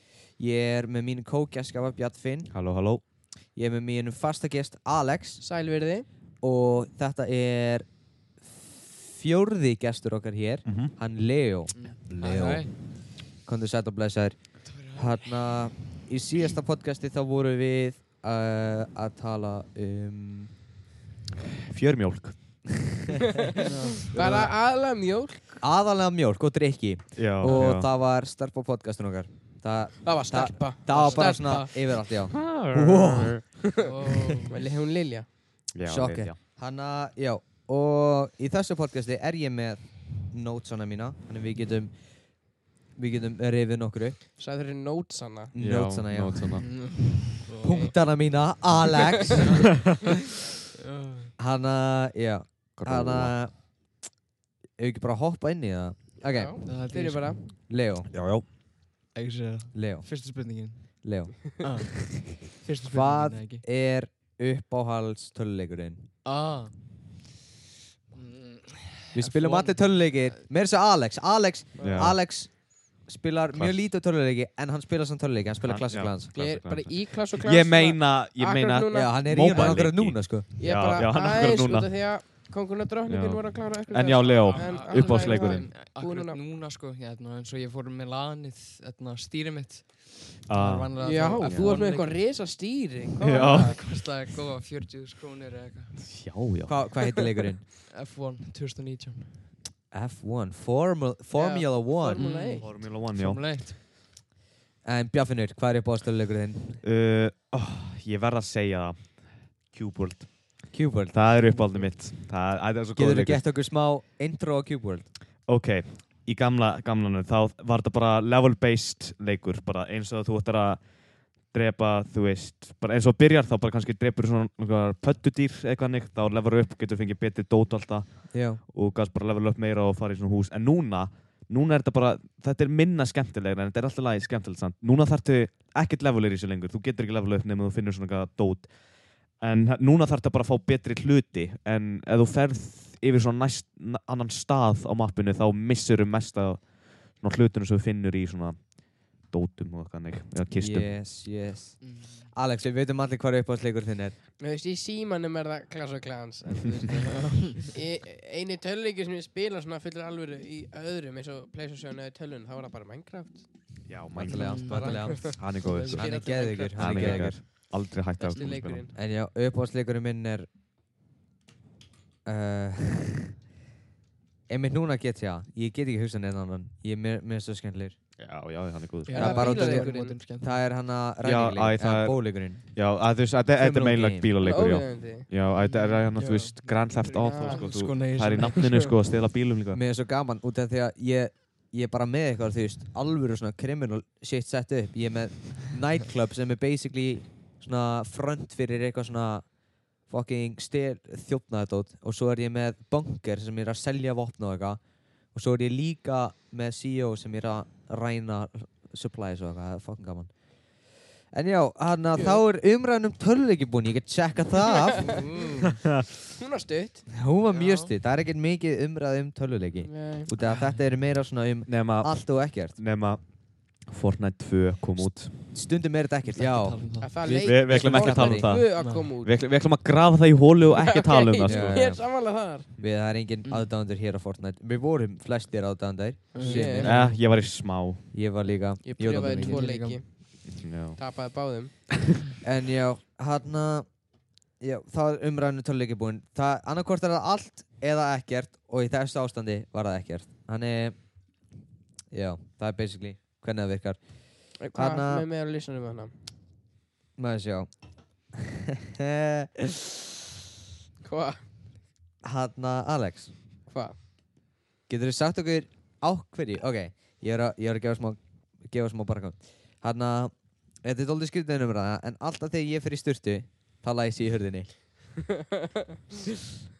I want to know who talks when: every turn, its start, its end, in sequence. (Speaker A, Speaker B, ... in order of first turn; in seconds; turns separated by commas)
Speaker A: 0.3-2.5, Speaker B: 2.5-3.0, Speaker A: 3.5-5.4, Speaker C: 5.4-6.1, Speaker A: 6.4-7.9, Speaker A: 8.4-20.5, Speaker B: 10.7-10.9, Speaker D: 11.7-12.7, Speaker B: 12.1-12.6, Speaker D: 14.6-15.6, Speaker B: 21.6-22.9, Speaker D: 23.6-24.5, Speaker C: 24.0-25.6, Speaker A: 24.1-24.5, Speaker A: 25.6-33.4, Speaker B: 27.1-27.9, Speaker C: 30.0-32.0, Speaker D: 30.9-31.4, Speaker B: 32.3-33.4, Speaker C: 32.7-35.3, Speaker D: 33.8-34.6, Speaker B: 35.7-36.4, Speaker A: 35.8-42.1, Speaker A: 42.9-44.2, Speaker C: 44.4-45.5, Speaker A: 45.5-46.6, Speaker B: 45.6-46.7, Speaker D: 46.5-47.6, Speaker C: 47.5-48.0, Speaker A: 47.6-49.7, Speaker D: 50.9-51.3, Speaker A: 51.4-53.6, Speaker B: 52.8-53.4, Speaker A: 54.8-56.5, Speaker C: 56.3-57.4, Speaker D: 56.6-57.4, Speaker A: 57.7-58.1, Speaker B: 58.1-58.4, Speaker D: 59.1-61.0, Speaker A: 59.7-60.1, Speaker A: 61.0-61.9, Speaker D: 61.6-63.6, Speaker A: 62.8-66.0, Speaker D: 66.2-66.8, Speaker D: 68.1-70.4, Speaker A: 69.1-76.3, Speaker C: 71.8-72.0, Speaker B: 71.8-72.2, Speaker B: 75.6-82.4, Speaker C: 76.3-79.9, Speaker A: 78.9-80.8, Speaker C: 80.6-86.4, Speaker B: 83.1-85.7, Speaker D: 84.5-92.2, Speaker B: 90.5-91.2, Speaker C: 91.0-93.8, Speaker A: 91.4-91.8, Speaker B: 93.2-93.8, Speaker D: 93.3-96.2, Speaker B: 96.1-96.9, Speaker A: 96.7-97.6, Speaker D: 97.9-99.5, Speaker A: 99.9-102.3, Speaker C: 101.3-102.7, Speaker D: 102.1-103.8, Speaker B: 102.5-103.5, Speaker A: 104.8-106.8, Speaker B: 106.8-113.4, Speaker A: 110.7-111.2, Speaker D: 111.5-111.9, Speaker A: 113.0-115.1, Speaker B: 115.5-120.8, Speaker B: 121.4-138.8, Speaker A: 128.3-128.6, Speaker B: 139.3-150.9, Speaker A: 150.5-154.2, Speaker D: 151.8-152.3, Speaker C: 154.4-163.5, Speaker D: 156.9-157.7, Speaker B: 163.9-166.1, Speaker A: 164.1-167.4, Speaker D: 164.3-166.2, Speaker C: 164.7-167.4, Speaker B: 166.7-168.8, Speaker C: 168.2-168.9, Speaker D: 168.3-168.6, Speaker A: 168.9-170.5, Speaker A: 172.2-173.3, Speaker A: 174.5-178.0, Speaker B: 178.2-179.4, Speaker D: 179.1-180.5, Speaker C: 179.1-180.2, Speaker A: 179.1-182.6, Speaker B: 181.2-189.8, Speaker A: 183.6-184.3, Speaker C: 184.4-185.3, Speaker D: 185.6-188.9, Speaker C: 187.2-187.8, Speaker A: 189.7-199.5, Speaker A: 200.1-210.3, Speaker A: 211.3-215.2, Speaker C: 212.1-212.4, Speaker C: 214.9-215.3, Speaker D: 215.1-215.8, Speaker C: 216.4-217.1, Speaker A: 217.1-222.8, Speaker D: 217.5-217.9, Speaker C: 219.8-220.3, Speaker D: 220.4-220.8, Speaker B: 221.7-225.4, Speaker A: 225.0-226.8, Speaker D: 226.3-227.1, Speaker C: 227.0-229.4, Speaker B: 227.2-232.0, Speaker A: 227.8-228.5, Speaker D: 228.8-229.1, Speaker C: 230.8-232.7, Speaker A: 231.4-232.0, Speaker A: 232.8-237.1, Speaker D: 233.4-233.7, Speaker D: 236.3-237.2, Speaker C: 236.4-236.9, Speaker B: 236.8-238.1, Speaker A: 238.1-239.7, Speaker C: 238.8-241.8, Speaker D: 239.3-240.0, Speaker B: 240.5-241.0, Speaker A: 242.4-243.9, Speaker A: 244.6-250.9, Speaker A: 252.1-254.0, Speaker C: 254.6-256.1, Speaker A: 254.7-255.2, Speaker A: 257.2-257.7, Speaker A: 258.3-259.5, Speaker C: 261.0-261.4, Speaker A: 262.2-263.3, Speaker C: 263.7-263.9, Speaker A: 264.9-274.7, Speaker C: 275.3-275.9